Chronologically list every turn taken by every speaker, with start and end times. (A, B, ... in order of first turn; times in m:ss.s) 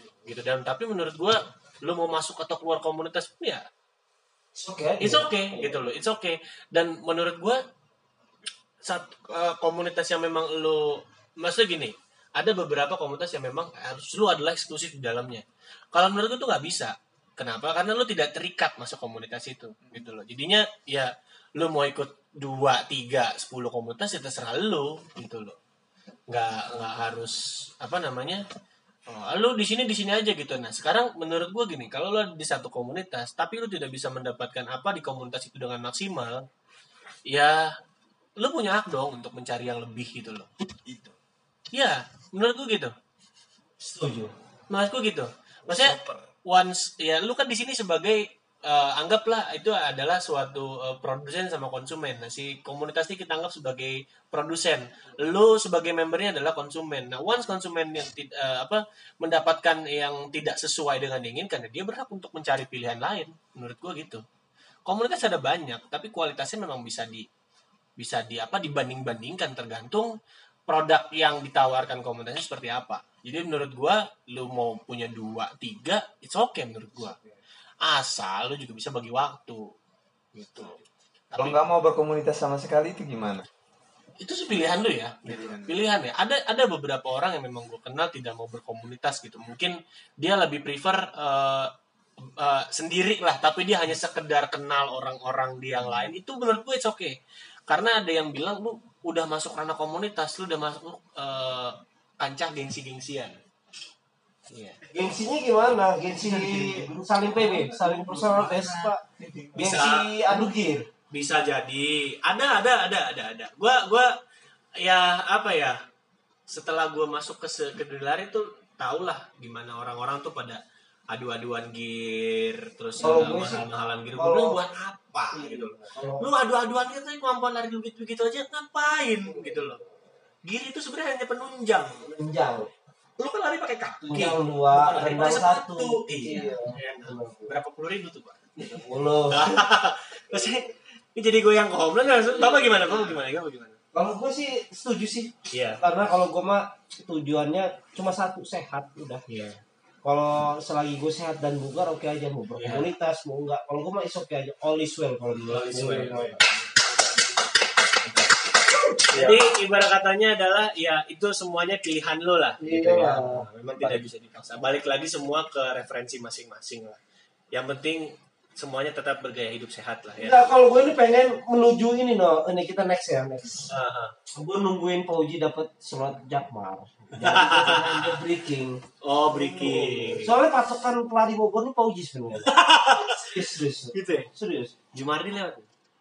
0:00.2-0:03.6 A
0:04.6-0:05.7 B
0:05.0-0:07.6 A
0:08.8-0:25.6 A
0:26.3-0:28.4 A
0:29.1-0:36.4 A
0:37.3-0:37.7 A
0:38.4-0:40.5 A
0:40.8-0:41.1 C
0:41.7-0:42.9 A
0:43.8-0:44.3 B
0:44.7-1:04.2 A
0:45.7-0:46.2 C
1:04.9-1:07.3 A
1:08.0-1:10.1 A
1:10.7-1:17.2 A
1:17.8-1:19.7 A
1:20.3-1:20.8 A
1:21.3-1:21.6 A
1:21.4-1:23.4 C
1:24.2-1:31.7 A
1:25.2-1:25.7 C
1:32.2-1:37.2 A
1:37.7-1:43.4 A
1:44.5-1:44.8 A
1:44.8-1:49.0 B
1:47.6-1:49.8 C
1:49.5-1:50.8 B
1:49.6-1:50.5 A
1:51.1-1:54.1 A
1:54.8-1:55.8 A
1:56.5-2:09.8 A
2:03.0-2:03.6 B
2:04.2-2:04.6 B
2:05.3-2:06.3 B
2:10.4-2:12.0 A
2:12.0-2:12.7 B
2:13.2-2:23.8 A
2:14.0-2:17.5 B
2:18.6-2:19.6 B
2:23.9-2:29.2 B
2:25.5-2:25.8 A
2:29.3-2:29.6 A
2:30.0-2:36.4 B
2:32.6-2:32.9 A
2:35.4-2:36.9 A
2:39.0-2:39.4 B
2:39.1-2:47.0 A
2:42.6-2:44.0 B
2:47.5-2:50.4 A
2:50.2-2:53.7 B
2:53.7-2:54.1 A
2:54.3-2:58.8 B
2:57.2-2:58.2 A
2:59.0-3:00.3 A
2:59.3-3:02.5 B
3:02.5-3:03.4 A
3:03.1-3:04.7 B
3:03.9-3:04.3 A
3:04.9-3:05.7 A